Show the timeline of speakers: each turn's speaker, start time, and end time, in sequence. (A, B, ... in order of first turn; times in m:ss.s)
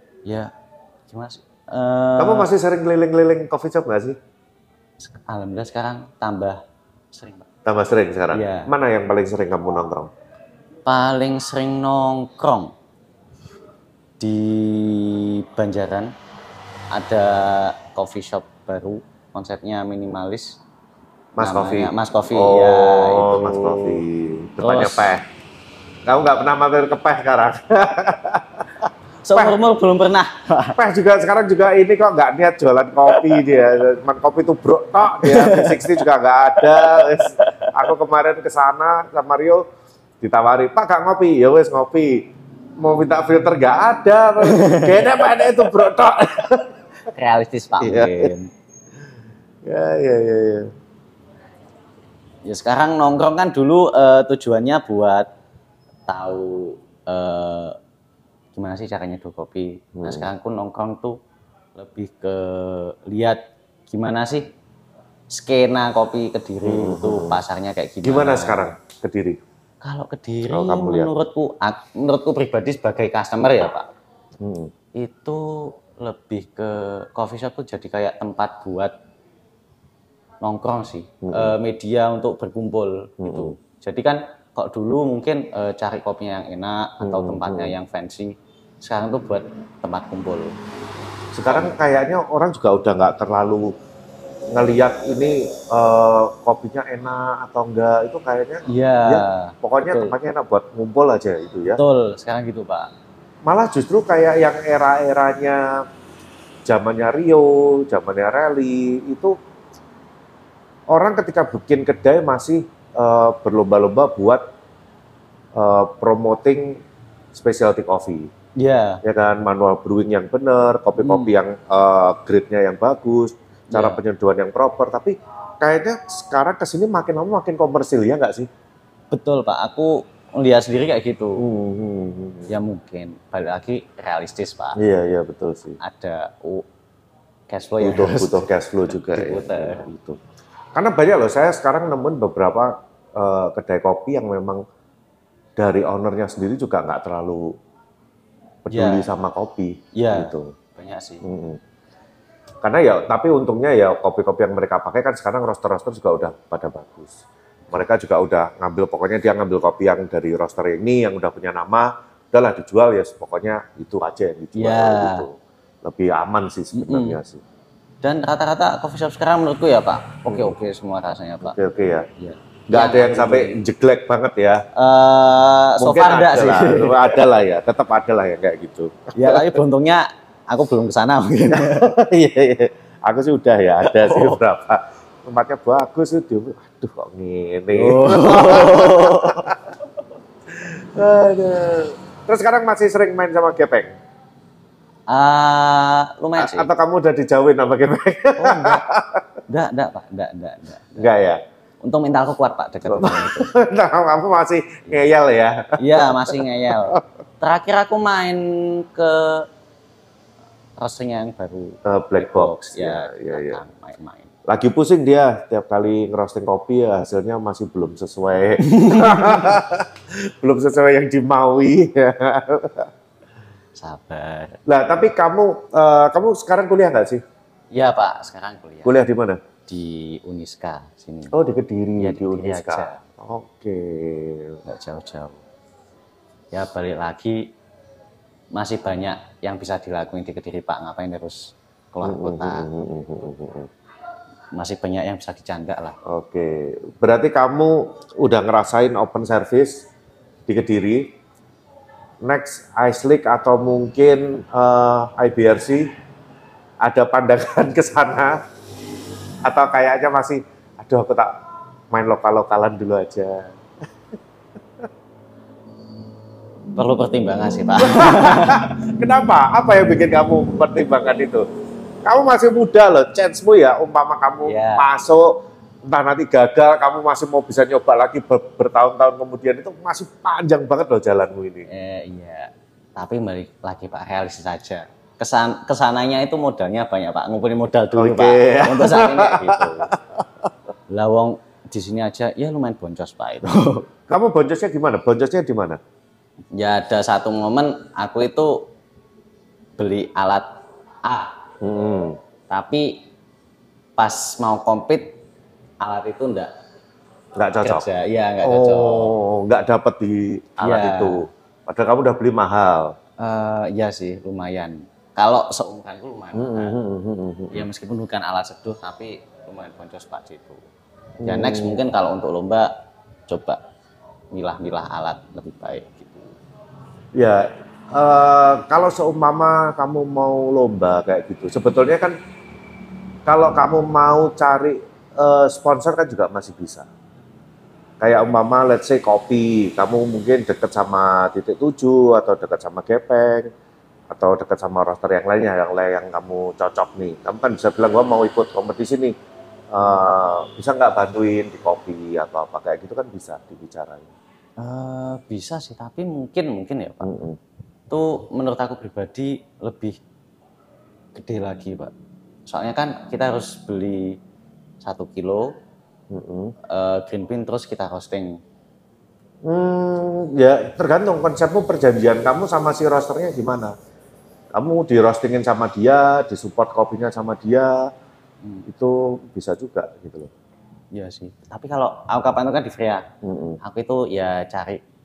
0:00.2-0:00.5 A
0:01.1-0:02.5 A
0:02.2-0:04.2 B
0:05.0-0:07.5 A
0:07.6-0:10.1 B
0:08.3-0:08.7 A
0:10.8-0:12.7 A
0:14.2-0:16.1 A
0:16.9-0:20.6 A
0:21.4-0:25.2 B
0:21.4-0:24.0 A
0:24.6-0:25.1 A
0:26.0-0:29.6 B
0:29.2-0:30.8 A
0:30.8-0:39.6 B
0:33.1-0:33.4 A
0:35.2-0:37.7 A
0:40.2-0:42.3 B
0:42.8-0:46.7 B
0:44.4-0:45.4 A
0:47.1-0:48.5 A
0:47.8-0:48.3 B
0:49.6-0:50.7 B
0:52.4-0:55.3 A
0:56.1-0:57.8 A
0:58.5-1:01.2 A
1:00.0-1:00.3 B
1:01.8-1:04.5 A
1:05.3-1:08.6 A
1:06.6-1:07.4 B
1:08.0-1:09.4 B
1:09.8-1:13.9 A
1:10.5-1:11.1 B
1:14.4-1:14.7 B
1:15.0-1:18.9 A
1:20.4-1:30.5 A
1:21.2-1:21.6 B
1:23.2-1:23.5 B
1:27.0-1:27.7 B
1:31.4-1:33.7 B
1:31.4-1:31.8 A
1:34.5-1:41.8 B
1:38.6-1:40.2 A
1:41.8-1:42.9 A
1:43.4-1:45.8 B
1:46.6-1:49.4 B
1:50.9-1:54.4 B
1:55.5-1:56.8 B
1:57.3-1:58.3 B
1:58.6-1:59.0 A
1:59.0-2:08.5 B
2:01.0-2:01.3 A
2:03.7-2:04.0 A
2:09.1-2:11.4 A
2:11.4-2:12.5 B
2:12.5-2:14.8 A
2:14.8-2:15.8 B
2:15.8-2:16.6 A
2:17.5-2:20.0 A
2:17.8-2:20.2 B
2:20.7-2:24.6 B
2:25.6-2:27.5 B
2:28.6-2:30.5 B
2:28.7-2:29.1 A
2:29.9-2:31.2 A
2:31.2-2:31.6 B
2:32.6-2:37.2 B
2:37.7-2:47.4 B
2:44.5-2:45.2 A
2:46.7-2:47.2 A
2:48.0-2:51.6 A
2:50.3-2:50.6 B
2:51.4-2:52.1 B
2:52.2-2:53.6 A
2:52.7-2:54.6 B
2:54.7-2:57.2 A
2:55.8-2:59.6 B
2:59.2-3:01.9 A
3:01.5-3:09.7 B
3:03.8-3:04.4 A
3:07.7-3:09.5 A
3:10.5-3:13.9 B
3:15.1-3:16.7 A
3:16.4-3:19.2 B
3:18.4-3:18.8 A
3:19.5-3:21.1 A
3:21.0-3:21.4 B
3:21.8-3:23.5 A
3:22.8-3:27.0 B
3:25.8-3:29.5 A
3:30.8-3:34.3 A
3:31.8-3:33.6 B
3:34.5-3:42.9 B
3:38.6-3:39.5 A
3:43.8-3:44.6 A
3:44.7-3:47.2 B
3:47.7-3:48.9 A
3:48.8-3:49.4 B
3:49.7-3:51.3 A
3:51.3-3:54.6 B
3:52.0-3:53.0 A
3:54.6-3:55.4 A
3:56.5-3:57.5 A
3:58.5-4:02.7 A
4:02.0-4:03.7 B
4:04.5-4:06.0 A
4:06.0-4:09.9 B
4:10.5-4:11.1 B
4:12.2-4:15.9 B
4:16.8-4:18.4 B
4:19.4-4:21.4 B
4:21.9-4:23.5 B
4:26.8-4:28.6 A
4:27.8-4:31.4 B
4:32.0-4:41.7 B
4:34.4-4:34.9 A
4:41.7-4:49.9 A
4:47.9-4:50.5 B
4:50.9-4:53.9 A
4:54.1-4:55.8 B
4:56.6-4:58.7 A
4:59.8-5:00.5 A
5:01.0-5:01.4 A
5:01.6-5:02.2 B
5:02.5-5:03.0 A
5:04.0-5:05.2 A
5:05.8-5:06.5 A
5:07.4-5:07.8 B
5:07.6-5:09.1 A
5:08.4-5:12.9 B
5:10.6-5:11.2 A
5:13.2-5:16.8 A
5:16.3-5:17.6 B
5:17.5-5:20.6 A
5:21.2-5:21.8 B
5:21.2-5:22.7 A
5:23.3-5:23.6 A
5:24.3-5:26.3 A
5:27.1-5:32.2 B
5:33.2-5:36.9 B
5:38.0-5:43.5 B
5:44.1-5:49.1 B
5:49.7-5:54.1 B
5:54.6-5:57.1 A
5:57.0-5:57.4 B
5:57.9-6:00.0 A
6:01.1-6:01.9 A
6:02.5-6:04.2 A
6:04.8-6:05.5 A
6:06.1-6:06.5 B
6:06.7-6:08.4 A
6:09.4-6:13.7 B
6:14.5-6:17.9 B
6:18.7-6:20.3 B
6:20.9-6:23.1 A
6:23.2-6:23.6 B
6:23.6-6:24.8 A